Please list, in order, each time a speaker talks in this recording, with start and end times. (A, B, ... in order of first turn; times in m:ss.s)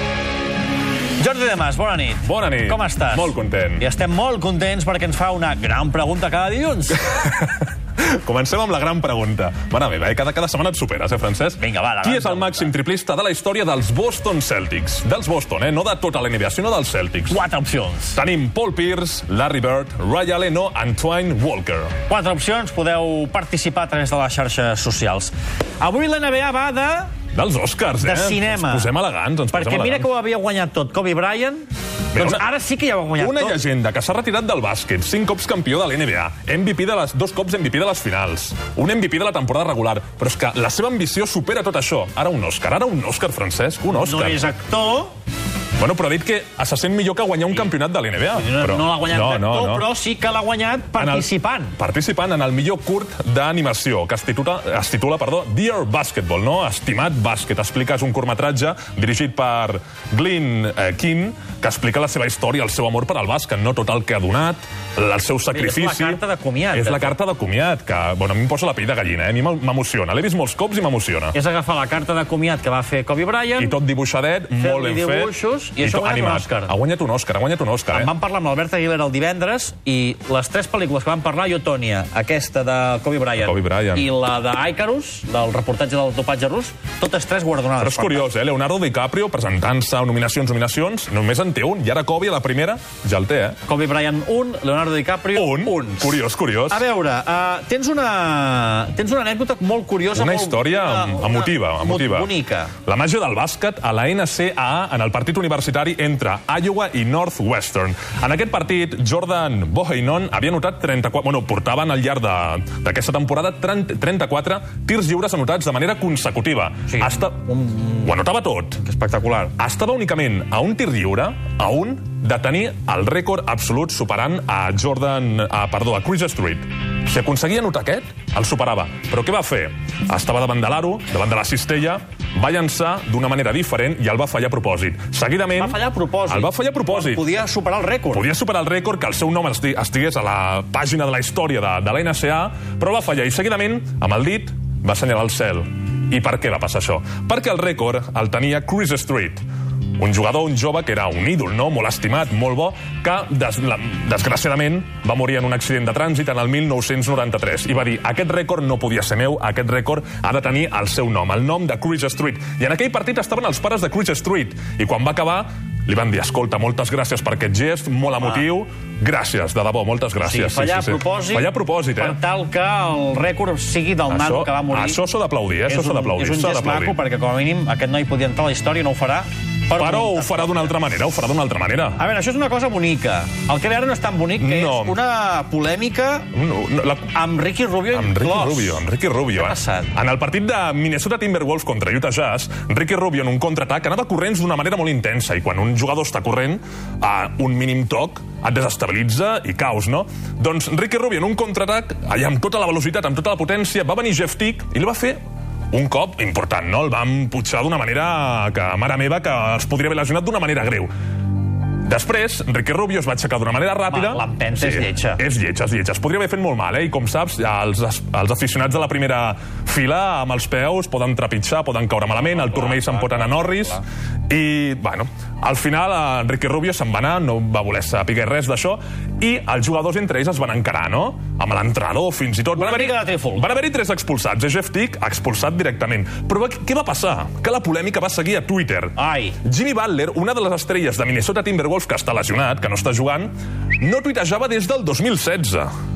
0:01.2-0:07.1 A
0:02.2-0:03.9 B
0:07.0-0:17.4 B
0:11.6-0:12.7 A
0:17.3-0:18.2 A
0:18.2-0:21.9 B
0:22.1-0:27.1 A
0:27.3-0:30.1 B
0:28.0-0:28.9 A
0:29.5-0:33.6 A
0:32.1-0:32.4 B
0:33.2-0:44.4 B
0:43.9-0:45.2 A
0:45.8-0:49.9 B
0:48.3-0:51.8 A
0:51.0-1:06.2 B
1:05.5-1:07.2 A
1:06.7-1:11.4 B
1:11.3-1:13.8 A
1:13.6-1:18.1 B
1:14.6-1:16.7 A
1:17.9-1:28.3 A
1:23.4-1:24.1 B
1:27.8-1:33.6 B
1:33.7-1:42.7 A
1:35.3-1:36.9 B
1:40.1-1:42.3 B
1:42.8-1:58.8 B
1:58.8-1:59.5 A
1:59.6-2:17.2 B
2:15.6-2:18.2 A
2:18.1-2:29.4 B
2:30.0-2:52.2 B
2:50.2-2:55.0 A
2:54.1-2:57.0 B
2:55.7-3:00.8 A
2:59.8-3:02.0 B
3:02.0-3:06.3 A
3:04.4-3:05.0 B
3:06.3-3:07.1 B
3:07.1-3:08.8 A
3:07.9-3:25.2 B
3:09.4-3:09.9 A
3:25.7-3:30.9 B
3:31.8-4:05.7 B
3:33.9-3:35.2 A
3:42.2-3:43.8 A
3:52.6-3:53.5 A
3:59.0-3:59.4 A